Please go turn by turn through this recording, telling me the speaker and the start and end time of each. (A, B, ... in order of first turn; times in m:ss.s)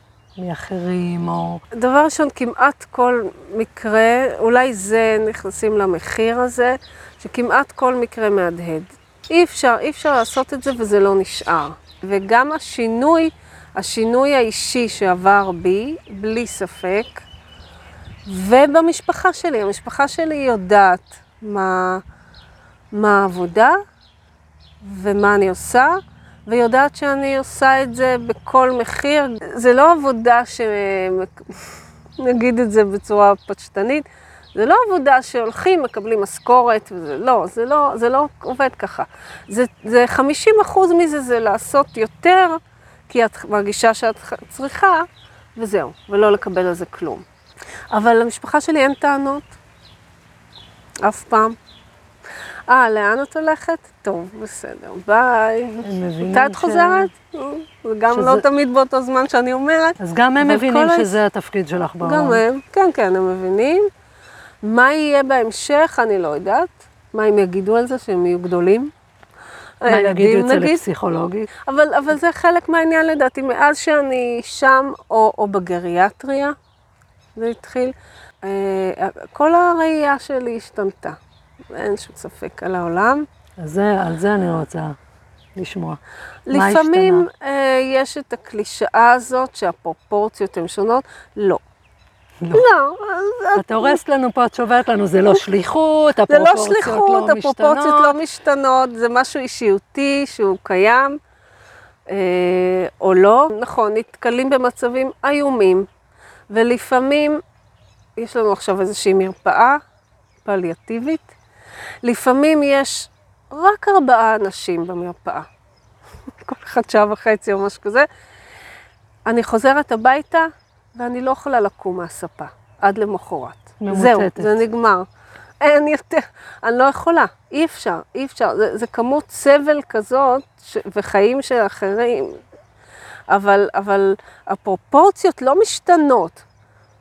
0:00.4-0:01.6 A
0:01.7-0:17.2 B
0:18.3-0:22.0 B
0:22.9-0:23.8 B
0:24.8-0:47.2 B
0:47.9-0:49.5 B
0:51.0-0:51.6 B
0:52.7-1:01.2 B
0:55.8-0:57.1 A
0:58.1-0:58.4 A
1:00.0-1:02.4 A
1:02.0-1:03.9 B
1:04.6-1:08.9 B
1:09.8-1:10.8 B
1:09.9-1:11.5 A
1:11.6-1:16.6 B
1:17.4-1:21.2 B
1:21.7-1:23.3 B
1:23.6-1:25.0 A
1:25.6-1:27.3 A
1:26.5-1:31.6 B
1:32.5-1:34.0 B
1:33.6-1:38.2 A
1:36.3-1:41.2 B
1:42.1-1:45.9 B
1:46.5-1:47.4 B
1:48.2-1:49.8 B
1:50.4-1:51.3 B
1:52.0-1:55.5 B
1:56.4-1:58.1 B
1:59.3-2:05.1 B
2:03.8-2:04.6 A
2:05.6-2:12.4 B
2:13.3-2:16.4 B